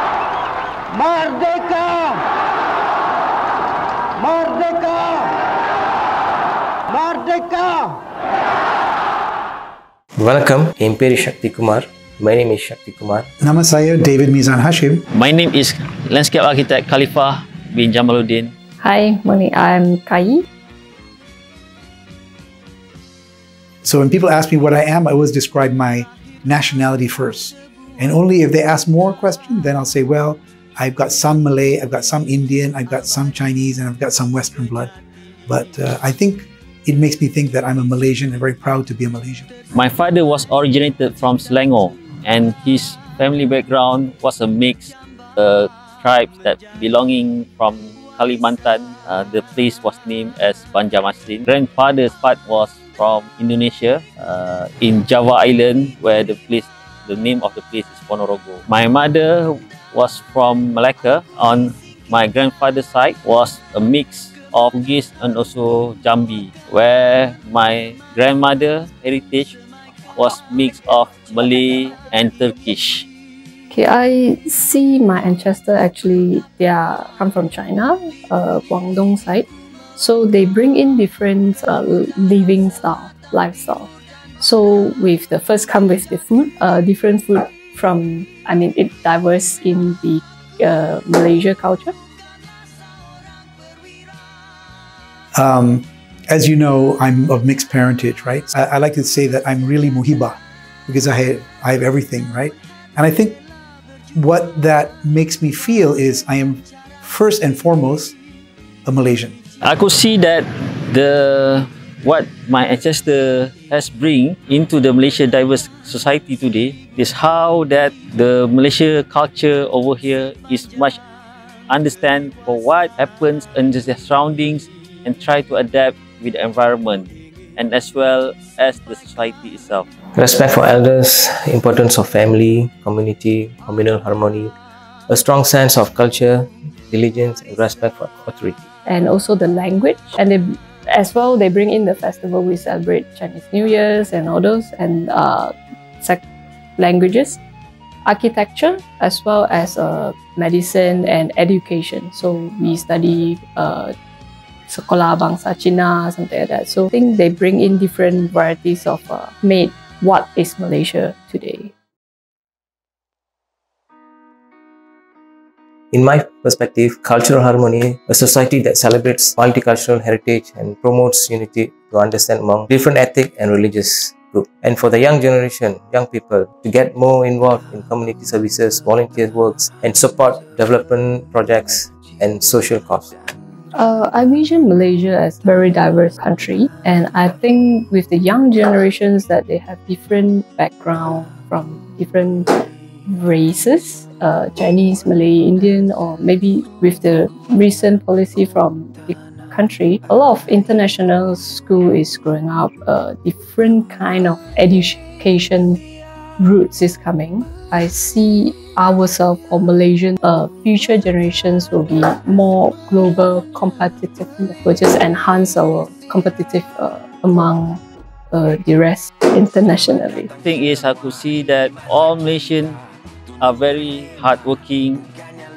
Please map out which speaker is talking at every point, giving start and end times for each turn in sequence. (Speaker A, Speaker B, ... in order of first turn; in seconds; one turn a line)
Speaker A: 1.0-2.1
Speaker A: 4.2-5.2
Speaker A: 6.9-7.9
Speaker B: 10.2-13.3
Speaker C: 13.4-15.1
Speaker D: 15.1-18.5
Speaker E: 18.8-20.4
Speaker C: 23.8-34.9
Speaker C: 35.5-39.5
Speaker D: 39.7-69.6
Speaker D: 70.2-73.1
Speaker E: 73.7-91.9
Speaker C: 95.4-103.4
Speaker C: 104.2-108.2
Speaker C: 108.9-109.4
Speaker D: 109.6-121.0
Speaker D: 121.7-129.9
Speaker B: 130.2-134.5
Speaker B: 135.1-138.7
Speaker E: 138.9-146.2
Speaker E: 146.8-147.4
Speaker E: 148.1-153.9
Speaker E: 154.7-161.7
Speaker B: 165.9-183.1
Speaker E: 183.8-192.5
Speaker E: 193.1-205.8
Speaker E: 206.4-220.3
Speaker D: 220.4-222.8
Speaker D: 223.4-225.1